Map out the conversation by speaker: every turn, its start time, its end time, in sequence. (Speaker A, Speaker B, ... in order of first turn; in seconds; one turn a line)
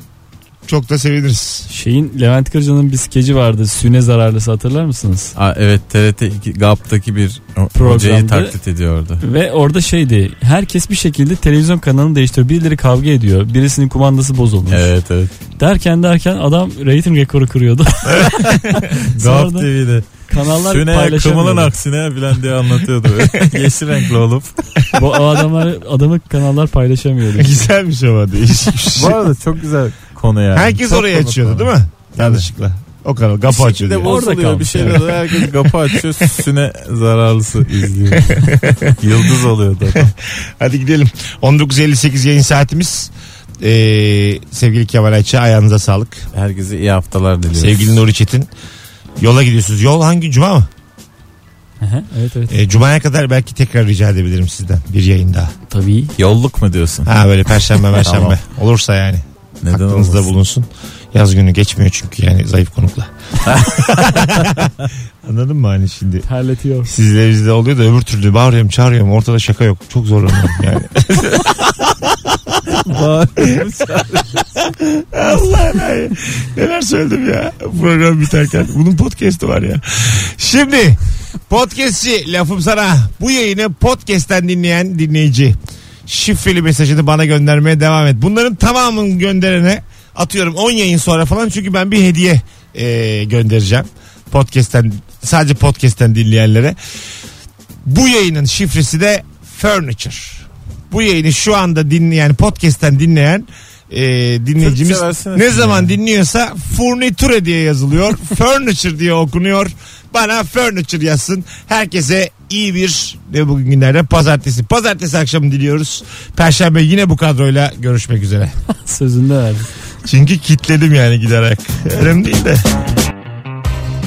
Speaker A: 0.7-1.7
Speaker B: 1.7-5.3
Speaker C: 5.4-9.2
Speaker B: 7.8-8.6
Speaker B: 9.2-14.9
Speaker C: 14.7-15.3
Speaker B: 15.6-18.4
Speaker C: 18.2-24.5
Speaker B: 19.1-19.7
Speaker B: 20.3-21.7
Speaker A: 23.2-23.6
Speaker B: 24.9-27.6
Speaker A: 27.4-29.2
Speaker C: 28.9-32.5
Speaker A: 30.5-34.2
Speaker C: 33.5-40.1
Speaker B: 34.0-35.2
Speaker A: 34.8-36.4
Speaker A: 38.1-39.2
Speaker A: 39.9-46.3
Speaker C: 46.3-48.0
Speaker A: 47.5-48.5
Speaker A: 49.2-50.7
Speaker B: 51.8-52.6
Speaker A: 52.5-55.5
Speaker B: 55.7-56.1
Speaker C: 56.2-57.1
Speaker A: 57.1-66.3
Speaker C: 58.0-58.4
Speaker C: 59.6-60.3
Speaker C: 63.5-64.5
Speaker B: 66.2-66.9
Speaker A: 66.9-72.8
Speaker C: 72.7-74.5
Speaker A: 73.4-73.7
Speaker A: 74.6-96.8
Speaker A: 97.8-118.5
Speaker C: 104.6-106.0
Speaker B: 118.7-119.7
Speaker A: 120.0-122.6